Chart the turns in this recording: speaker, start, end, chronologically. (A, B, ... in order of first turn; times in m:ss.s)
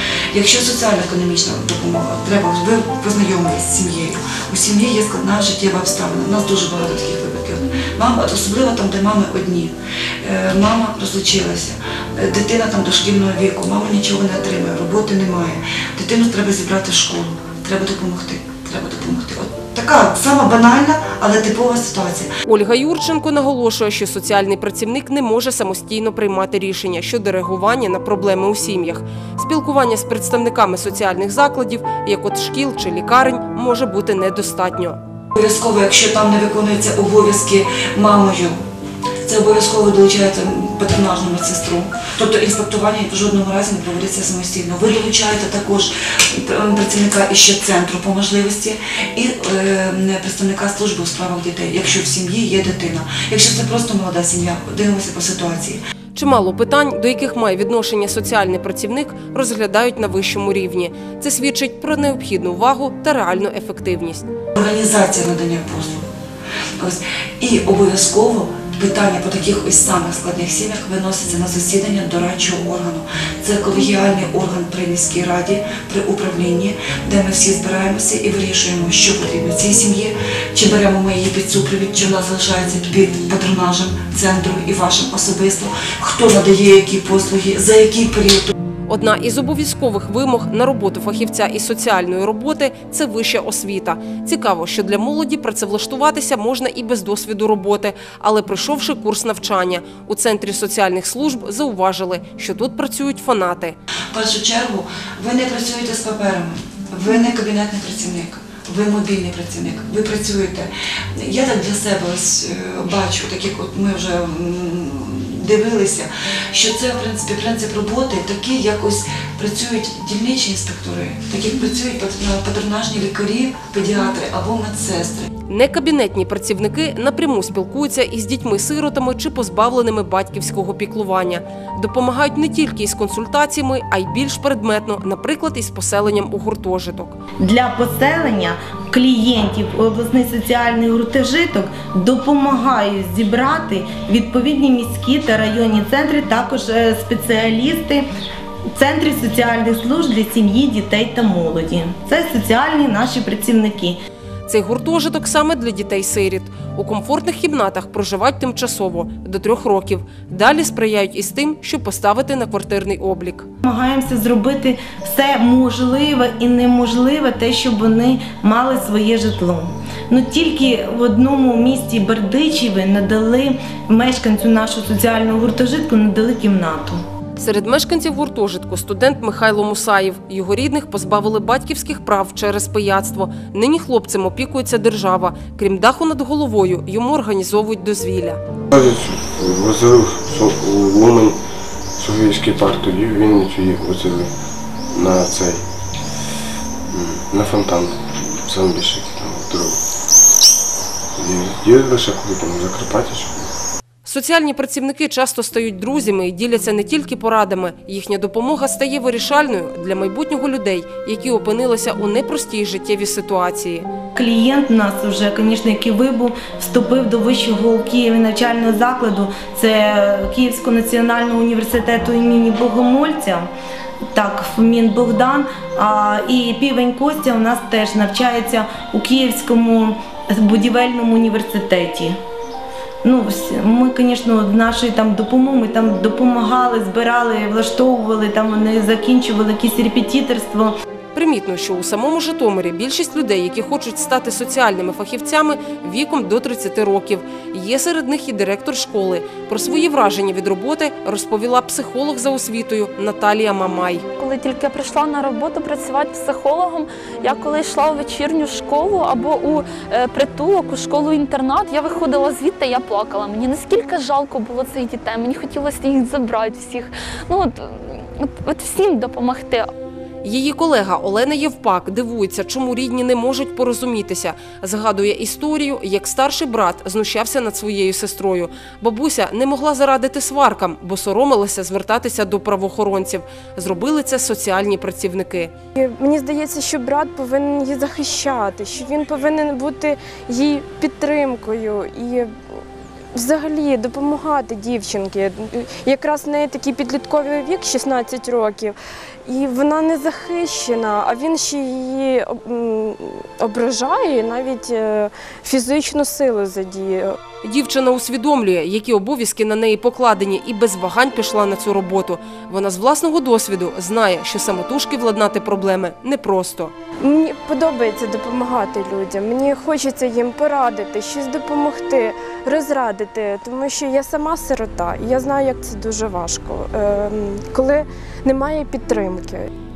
0:00.3-0:22.3 A
0:22.4-0:35.0 B
0:35.3-0:38.6 A
0:39.2-0:55.8 A
0:56.1-1:04.3 B
1:04.6-1:06.0 A
1:06.8-1:28.5 A
1:28.9-1:43.8 B
1:44.1-2:05.3 A
2:05.5-2:17.2 B
2:17.4-2:28.0 C
2:28.8-2:34.0 C
2:34.5-2:43.5 B
2:43.6-2:57.0 C
2:57.4-3:08.4 B
3:08.7-3:11.4 D
3:12.0-3:14.3 D
3:14.9-3:15.7 D
3:16.9-3:19.8 D
3:21.2-3:23.5 D
3:24.0-3:33.9 B
3:34.1-3:43.5 C
3:44.1-3:52.2 C
3:53.0-4:00.7 C
4:01.1-4:14.0 B
4:14.2-4:29.7 E
4:30.2-4:45.5 B
4:45.8-4:52.3 F
4:53.1-5:07.2 F
5:07.4-5:16.7 B
5:17.0-5:29.5 F